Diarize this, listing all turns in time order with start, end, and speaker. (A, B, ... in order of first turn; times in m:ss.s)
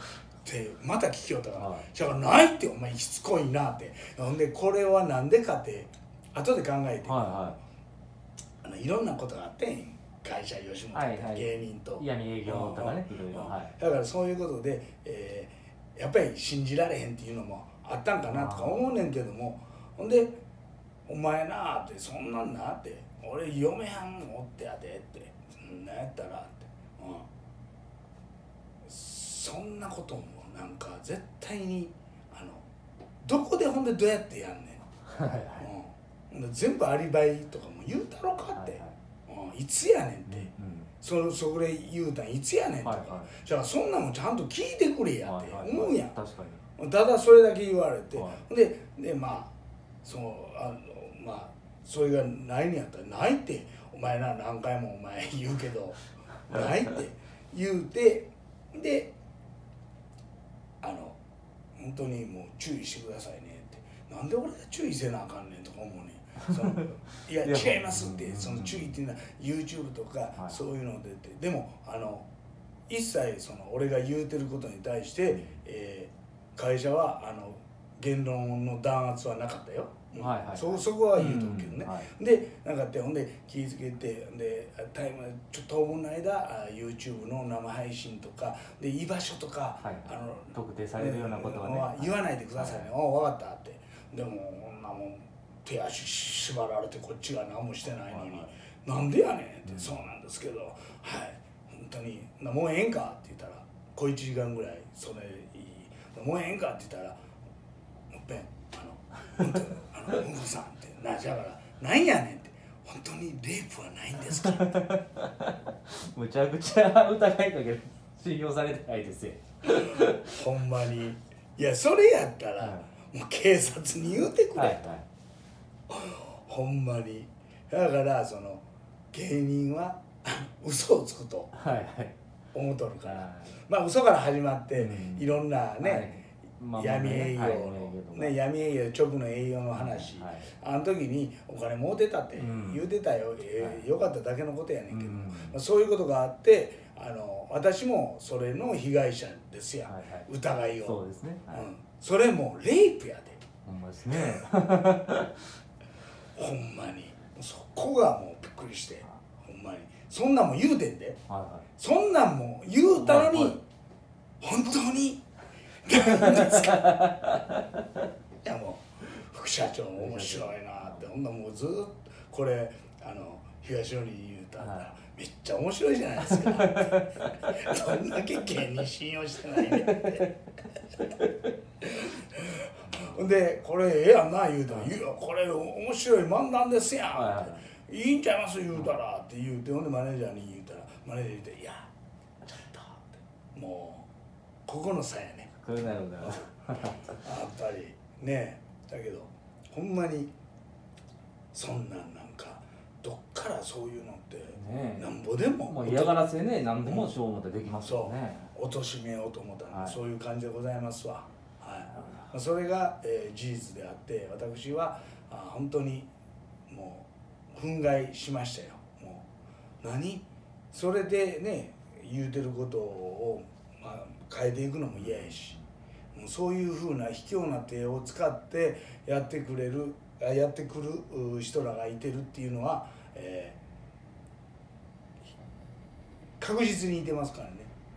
0:00.4-0:07.6 A
0:01.6-0:01.9 B
0:07.0-0:07.6 B
0:08.6-0:20.4 A
0:10.9-0:13.8 B
0:18.3-0:18.9 B
0:21.1-0:27.3 A
0:28.8-0:32.6 A
0:33.2-0:34.9 A
0:35.1-0:35.7 B
0:35.6-0:40.5 A
0:38.6-0:38.9 B
0:40.3-0:40.9 B
0:41.0-0:46.2 A
0:42.8-0:43.3 B
0:45.2-0:46.6 B
0:46.8-0:49.5 A
0:48.1-0:48.4 B
0:50.0-0:59.1 A
1:00.8-1:01.2 A
1:01.8-1:12.3 A
1:07.4-1:08.9 B
1:12.9-1:47.2 A
1:20.2-1:22.1 B
1:29.8-1:32.9 B
1:38.1-1:38.5 B
1:48.1-1:54.9 A
1:54.4-2:00.3 B
1:59.7-2:05.0 A
2:02.6-2:02.9 B
2:04.6-2:05.0 B
2:05.9-2:11.6 A
2:11.5-2:12.2 B
2:12.5-2:16.1 A
2:13.0-2:13.6 B
2:14.8-2:15.3 B
2:15.8-2:18.4 B
2:16.8-2:33.4 A
2:19.8-2:20.5 B
2:22.4-2:22.9 B
2:24.9-2:25.6 B
2:29.9-2:30.3 B
2:30.8-2:31.7 B
2:33.6-2:35.5 B
2:36.4-2:41.2 A
2:41.3-2:41.7 B
2:41.8-2:43.6 A
2:43.0-2:43.6 B
2:44.4-2:45.3 A
2:45.8-2:47.1 A
2:45.9-2:47.6 B
2:48.4-3:00.3 A
2:50.0-2:50.9 B
2:56.2-2:57.8 B
2:59.6-3:00.3 B
3:01.8-3:11.9 A
3:02.9-3:03.2 B
3:07.1-3:07.7 B
3:12.6-3:14.1 A
3:14.7-3:15.6 A
3:15.6-3:17.2 B
3:16.2-3:16.5 A
3:17.1-3:20.3 A
3:21.5-3:26.2 A
3:24.5-3:25.1 B
3:25.6-3:28.5 B
3:26.8-3:27.1 A
3:27.8-3:36.1 A
3:29.7-3:30.0 B
3:31.9-3:32.3 B
3:36.7-3:39.2 A
3:39.8-3:45.6 A
3:45.0-3:45.6 B
3:46.2-3:53.6 A
3:56.4-3:57.7 A